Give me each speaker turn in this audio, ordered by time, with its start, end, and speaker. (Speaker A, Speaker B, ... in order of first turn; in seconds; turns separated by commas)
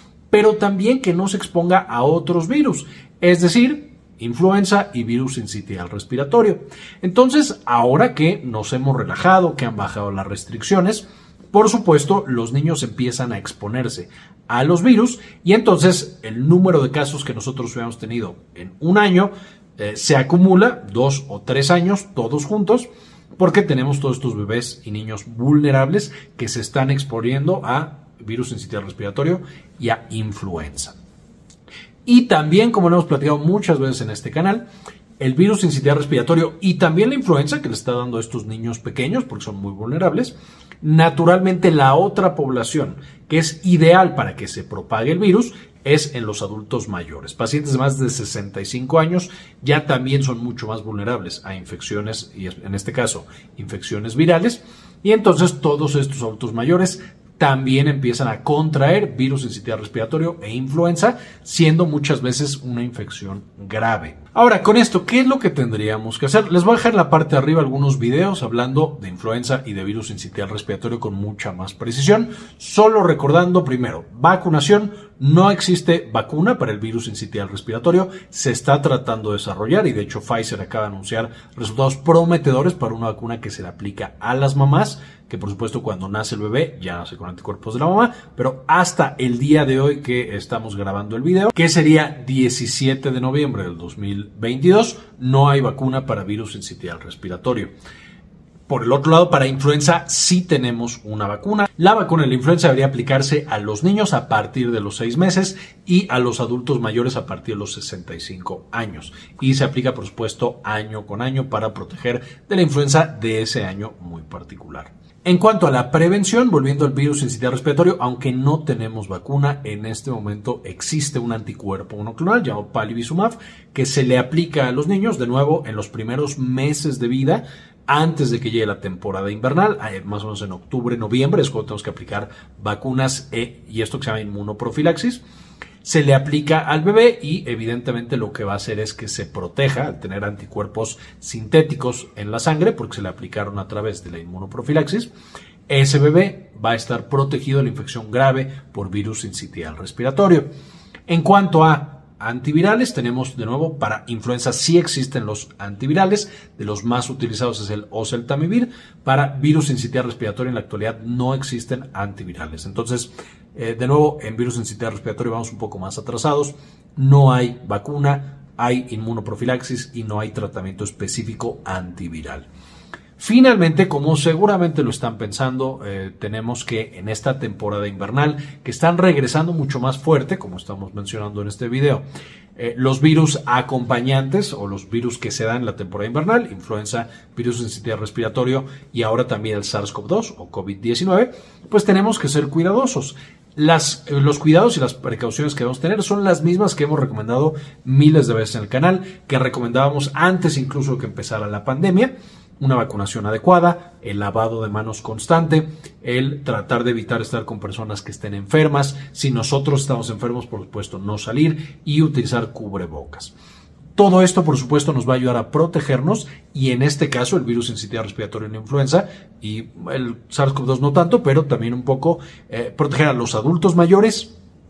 Speaker A: 0.3-22.9, Speaker A: 23.4-30.9, Speaker A: 32.0-34.6, Speaker A: 35.2-97.7, Speaker A: 98.7-135.2, Speaker A: 135.8-145.1, Speaker A: 145.7-150.5, Speaker A: 151.1-172.4, Speaker A: 173.2-182.0, Speaker A: 182.6-213.3, Speaker A: 213.9-224.3